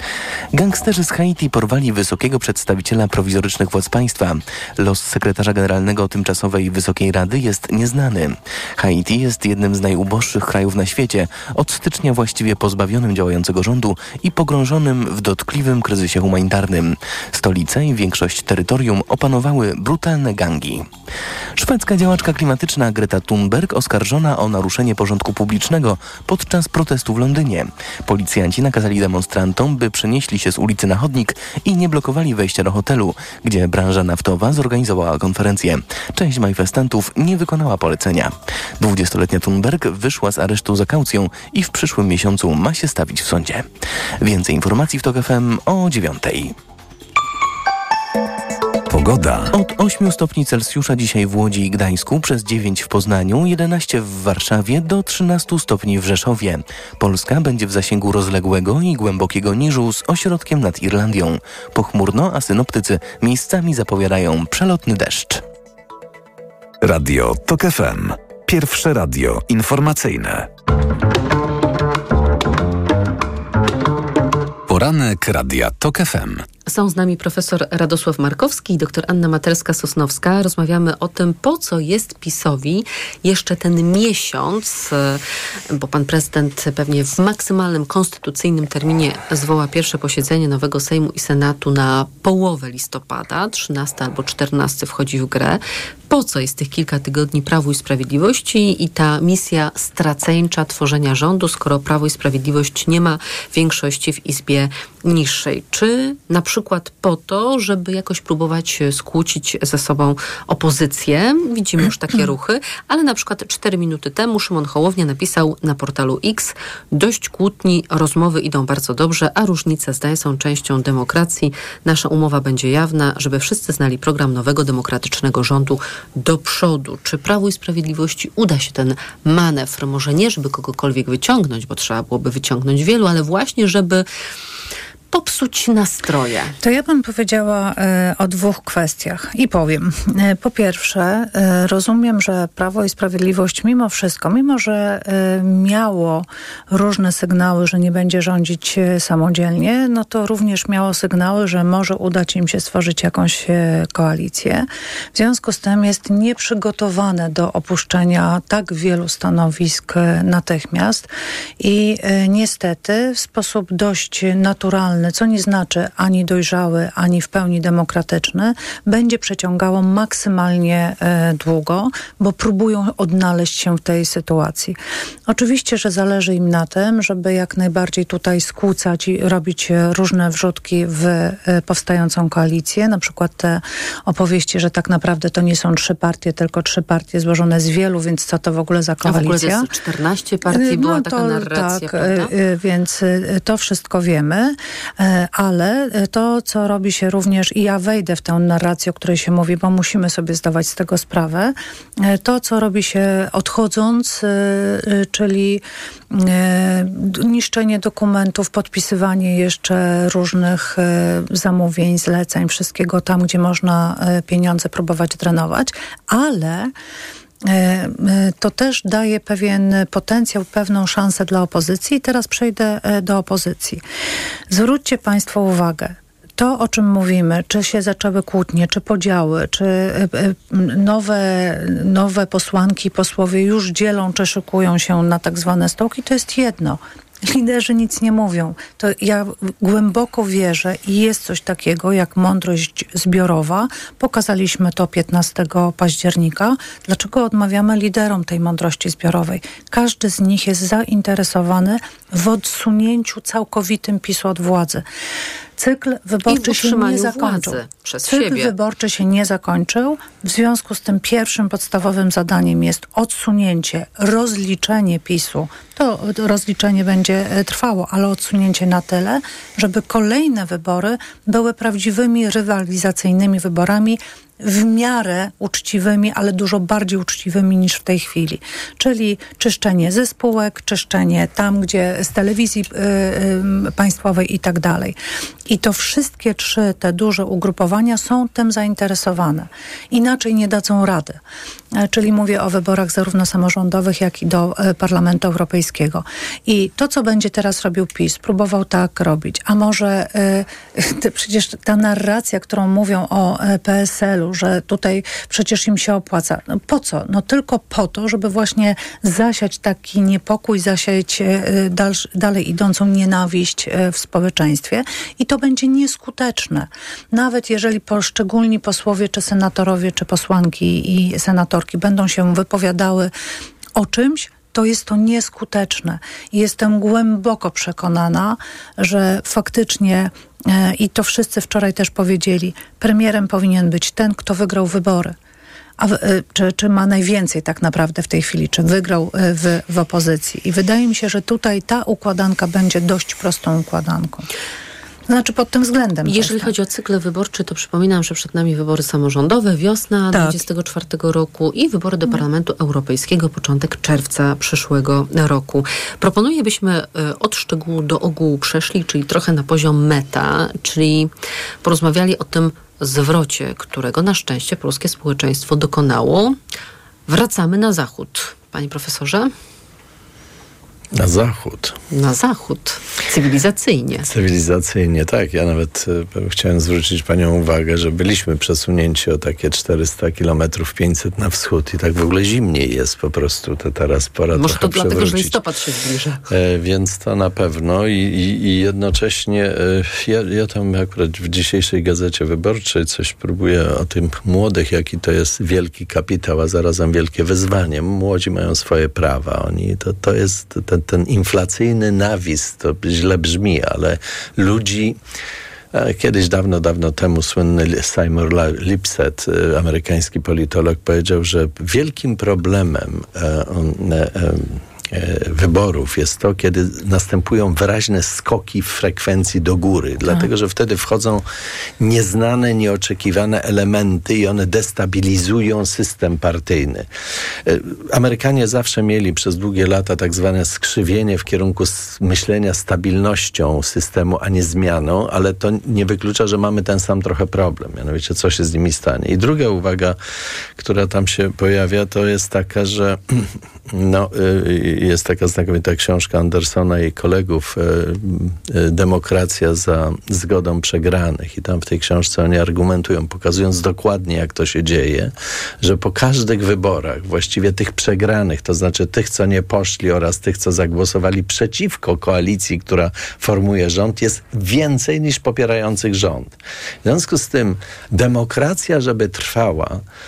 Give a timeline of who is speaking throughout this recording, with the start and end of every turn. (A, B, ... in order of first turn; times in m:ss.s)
0:00.5-0:20.9 A
0:21.6-0:43.7 A
0:44.2-0:46.6 A
0:48.9-0:49.5 B
0:49.5-1:05.4 A
1:06.8-1:10.5 B
1:14.7-1:16.4 B
1:16.6-1:25.2 C
1:25.7-2:14.0 C
2:15.1-2:16.6 C
2:16.6-2:41.1 D
2:41.6-2:54.8 D
2:55.3-3:09.7 D
3:09.0-3:12.3 C
3:10.5-3:36.7 D
3:37.4-3:43.8 D
3:44.5-4:14.8 D
4:15.6-4:45.0 D
4:16.3-4:18.5 C
4:45.5-4:51.2 D
4:51.8-5:23.1 D
5:23.8-5:35.2 D
5:35.8-5:44.3 D
5:45.1-5:46.5 D
5:46.0-6:01.1 C
5:50.1-5:50.4 D
6:01.6-6:06.4 C
6:07.1-6:09.3 C
6:11.0-6:11.7 E
6:11.9-6:14.1 C
6:14.0-6:25.4 E
6:24.3-6:26.2 C
6:26.3-6:45.0 E
6:45.7-7:01.2 E
7:01.8-7:06.9 E
7:07.4-7:20.0 E
7:20.6-7:49.8 E